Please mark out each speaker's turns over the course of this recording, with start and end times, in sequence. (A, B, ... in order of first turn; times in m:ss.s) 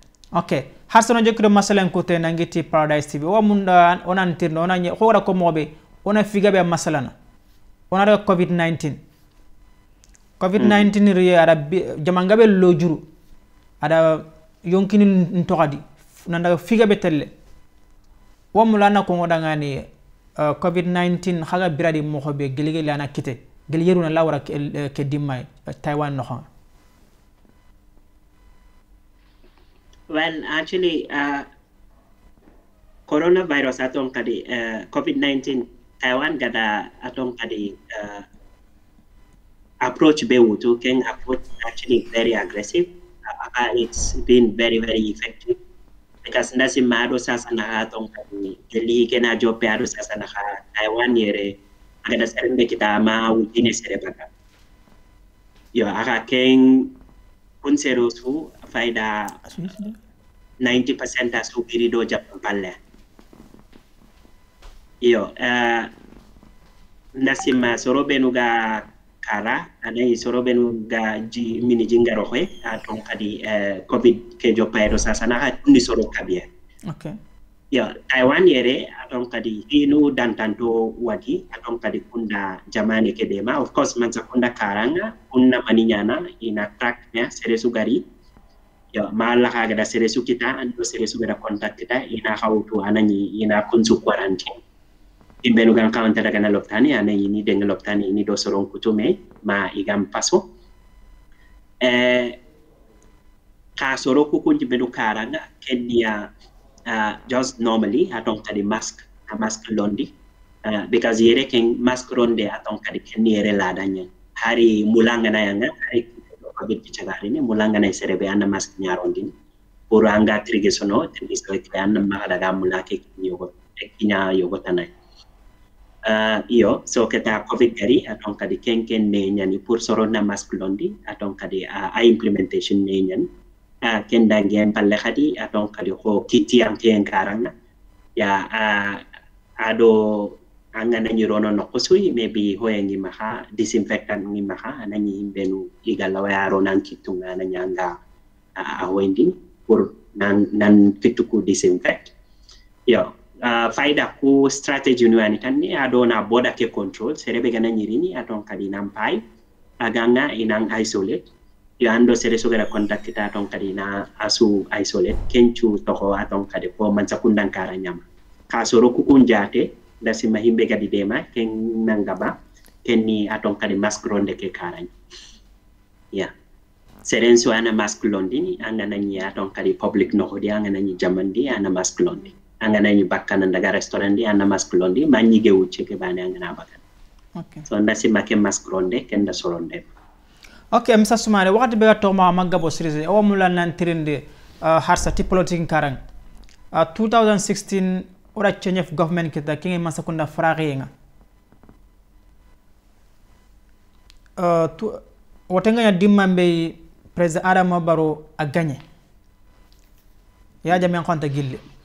0:00.3-0:07.1 A
0:07.9-0:09.0 A
0:10.4-0:13.0 A
0:10.6-0:10.9 B
0:13.8-0:17.3 A
0:18.5-0:19.9 A
0:20.4-0:26.4 A
0:30.1-0:31.5 B
0:33.1-0:38.2 B
0:39.8-0:45.6 B
0:46.2-0:54.3 B
0:55.7-0:56.9 B
0:57.6-0:59.4 B
0:59.4-1:00.0 A
1:00.6-1:02.8 B
1:05.0-1:05.9 B
1:07.1-1:16.5 B
1:16.9-1:17.2 A
1:17.7-1:28.0 B
1:28.9-1:34.6 B
1:35.4-1:40.4 B
1:41.8-1:42.4 B
1:43.8-1:46.3 B
1:46.9-1:50.1 B
1:50.6-1:59.3 B
1:59.9-2:04.9 B
2:06.0-2:13.3 B
2:13.8-2:17.5 B
2:18.2-2:19.0 B
2:19.6-2:27.9 B
2:28.6-2:32.1 B
2:32.8-2:39.2 B
2:39.8-2:41.3 B
2:41.8-2:54.9 B
2:57.0-3:06.8 B
3:07.4-3:07.7 A
3:07.7-3:09.8 B
3:10.7-3:16.0 A
3:16.7-3:20.9 A
3:24.4-3:28.8 A
3:30.6-3:31.6 A